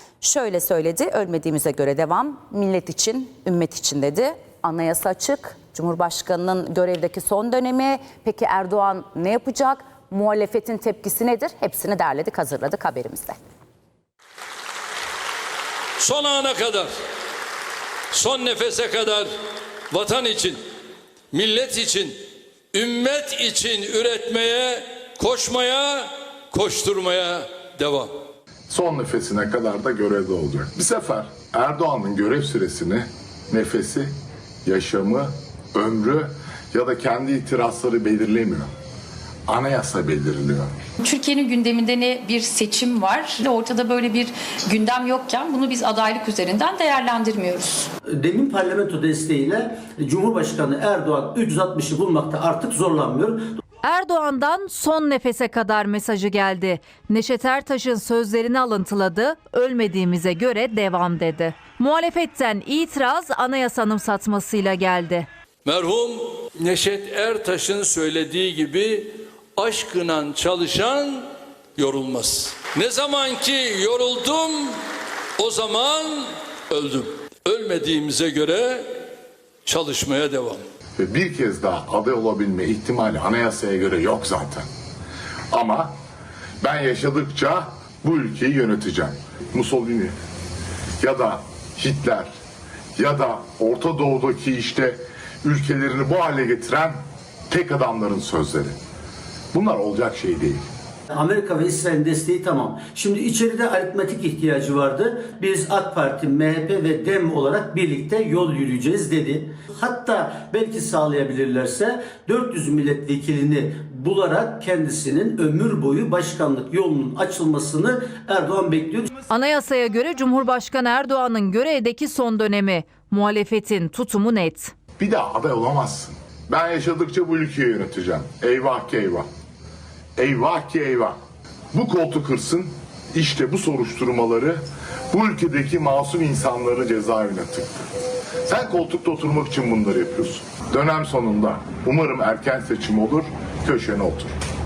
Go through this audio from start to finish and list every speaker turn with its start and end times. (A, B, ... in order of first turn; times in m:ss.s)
0:00.2-0:13.4 A
0:16.0-0:16.9 B
0:18.1-0:19.3 B
0:19.9-0:20.6 B
0:21.3-0:22.1 B
0:22.7-0:28.1 B
0:28.7-0:34.1 C
0:34.6-0:38.7 C
0:39.5-0:40.7 C
0:41.0-0:47.8 D
0:48.1-0:53.6 E
0:53.8-1:05.3 F
1:05.6-1:11.2 B
1:11.8-1:14.7 B
1:15.4-1:18.9 B
1:19.6-1:20.6 B
1:21.0-1:24.6 C
1:25.5-1:25.9 C
1:26.6-1:30.1 C
1:31.0-1:32.3 C
1:33.0-1:37.0 C
1:37.5-1:38.7 C
1:39.5-1:40.6 C
1:41.1-1:59.1 E
1:59.3-2:04.7 F
2:05.0-2:09.2 C
2:10.2-2:11.2 C
2:11.7-2:14.6 C
2:15.1-2:17.7 C
2:18.4-2:24.4 C